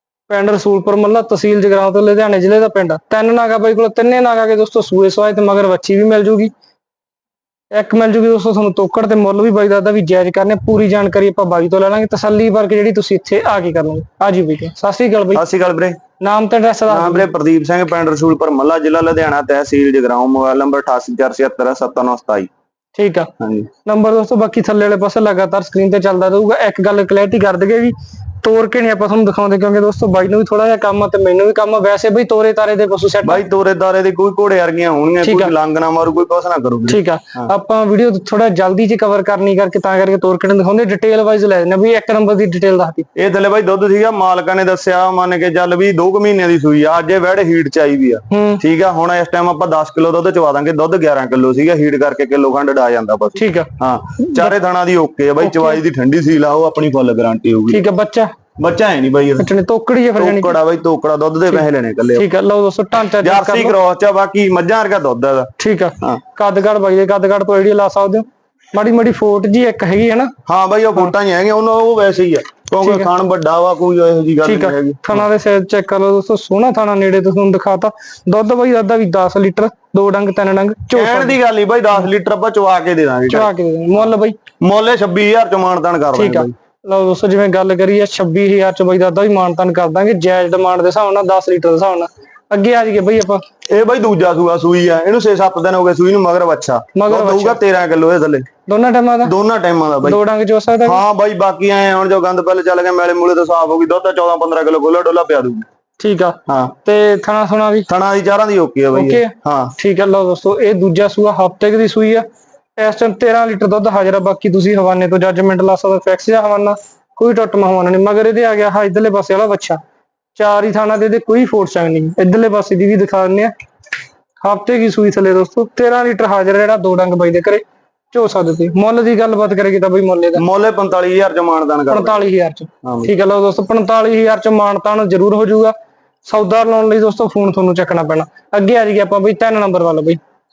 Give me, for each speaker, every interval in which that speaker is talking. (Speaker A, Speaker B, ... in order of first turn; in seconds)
Speaker A: 0.3-6.5, 7.7-15.4, 16.2-17.3, 23.0-23.3, 23.8-33.4, 35.2-35.5, 36.9-43.1, 48.3-48.6, 53.4-54.5, 55.4-55.8, 57.7-58.3, 59.4-60.6, 62.2-63.8, 65.6-70.3, 72.8-73.1, 74.4-81.4, 83.3-84.4, 86.1-93.4, 96.9-97.6, 98.7-99.3, 100.0-101.0, 106.0-107.9, 108.9-112.2, 112.8-119.8, 120.4-123.5, 124.4-130.4, 131.9-140.2
Speaker B: 15.3-16.0, 16.9-22.5, 23.4-23.7, 33.2-37.5, 43.2-57.8, 58.6-59.5, 60.2-62.3, 63.2-66.2, 70.5-75.3, 80.9-84.0, 84.6-86.5, 93.7-98.5, 99.2-100.2, 100.8-105.7, 106.5-106.8, 107.9-109.8, 130.3-132.3, 132.8-133.1